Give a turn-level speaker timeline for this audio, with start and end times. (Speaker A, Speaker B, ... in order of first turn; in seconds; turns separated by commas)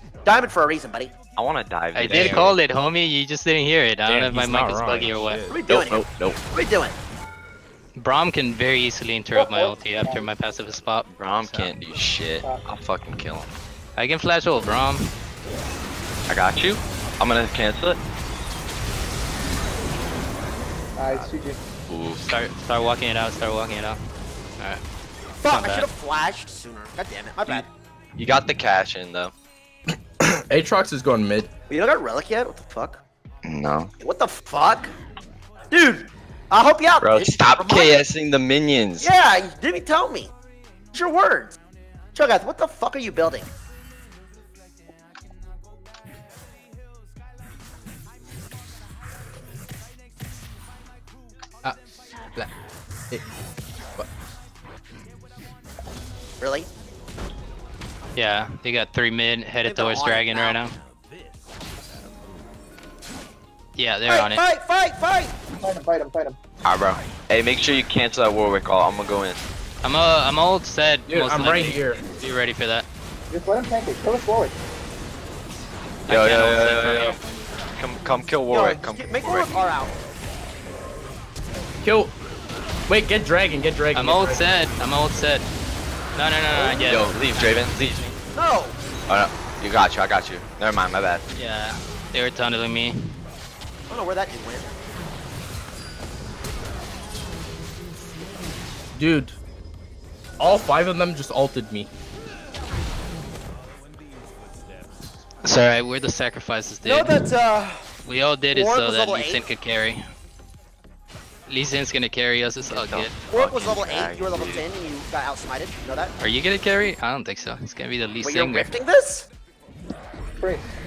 Speaker A: 0.2-1.1, Speaker B: 1.4-2.5, Speaker C: 1.9-5.4, Speaker D: 2.0-2.5, Speaker D: 4.0-5.6, Speaker A: 5.5-6.9, Speaker B: 5.7-6.4, Speaker C: 7.9-11.7, Speaker E: 9.3-10.3, Speaker B: 11.1-13.5, Speaker E: 12.4-12.7, Speaker C: 13.9-15.1, Speaker B: 16.3-18.0, Speaker E: 20.9-21.6, Speaker B: 21.9-22.2, Speaker C: 22.2-24.0, Speaker A: 25.4-27.7, Speaker C: 25.5-25.9, Speaker B: 28.2-29.3, Speaker D: 30.5-31.5, Speaker A: 31.7-33.0, Speaker B: 33.4-33.9, Speaker A: 34.0-34.9, Speaker A: 35.7-38.0, Speaker B: 37.0-39.1, Speaker A: 39.0-40.3, Speaker A: 40.9-41.5, Speaker A: 42.1-43.5, Speaker A: 56.4-56.7, Speaker C: 58.1-60.8, Speaker A: 59.6-60.6, Speaker C: 63.8-64.4, Speaker A: 64.0-65.3, Speaker E: 65.6-66.4, Speaker B: 66.6-69.4, Speaker C: 69.8-72.8, Speaker D: 71.1-72.0, Speaker E: 73.3-74.5, Speaker C: 76.1-77.2, Speaker B: 76.1-77.2, Speaker B: 77.8-79.6, Speaker A: 78.5-79.9, Speaker D: 81.8-82.1, Speaker D: 82.9-84.4, Speaker C: 83.9-85.5, Speaker C: 86.1-88.2, Speaker B: 86.8-87.8, Speaker A: 88.3-88.8, Speaker B: 89.1-91.2, Speaker C: 91.3-93.0, Speaker A: 93.9-94.7, Speaker D: 98.9-99.4, Speaker D: 100.4-101.9, Speaker C: 105.4-107.2, Speaker A: 106.8-107.8, Speaker C: 108.0-110.0, Speaker A: 108.5-109.4, Speaker C: 111.5-113.1, Speaker B: 112.7-114.7, Speaker A: 113.3-116.1, Speaker C: 116.2-118.7, Speaker A: 118.2-119.3